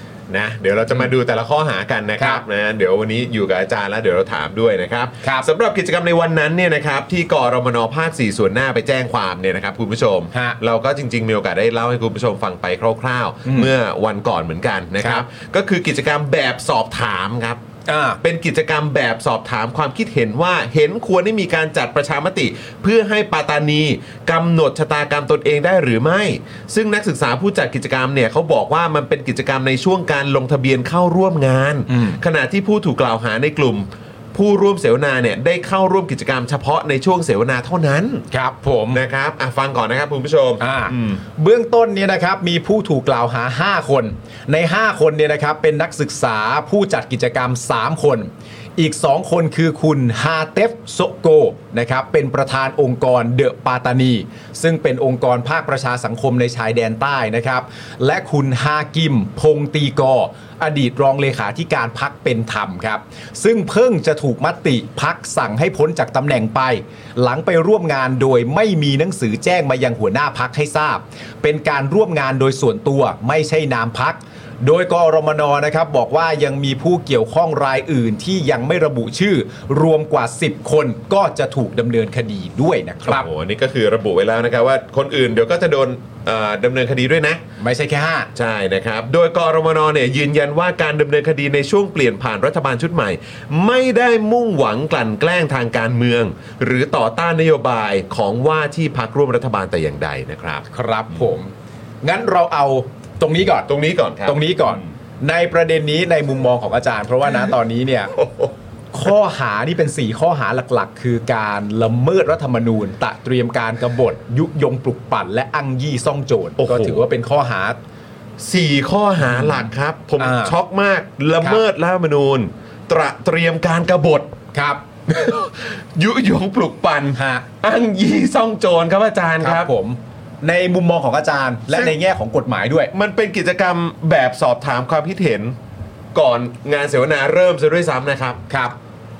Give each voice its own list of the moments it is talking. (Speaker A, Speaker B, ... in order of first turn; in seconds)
Speaker A: 0.3-17.6, 18.2-38.2, 38.9-41.2, 83.0-87.4, 88.3-100.7, 103.7-104.7, 108.1-108.5, 116.6-117.0, 118.4-124.3, 125.1-129.7, 132.9-135.6, 136.1-138.4
Speaker B: 2.2-2.4, 10.3-10.6, 13.4-13.7, 17.9-18.2, 31.9-32.2, 38.3-39.0, 40.6-83.3, 87.6-88.3, 100.7-101.5, 102.0-103.7, 104.2-108.1, 108.9-117.8, 119.3-119.7, 120.2-120.5, 124.5-124.8, 127.1-127.4, 129.4-132.9, 138.5-138.8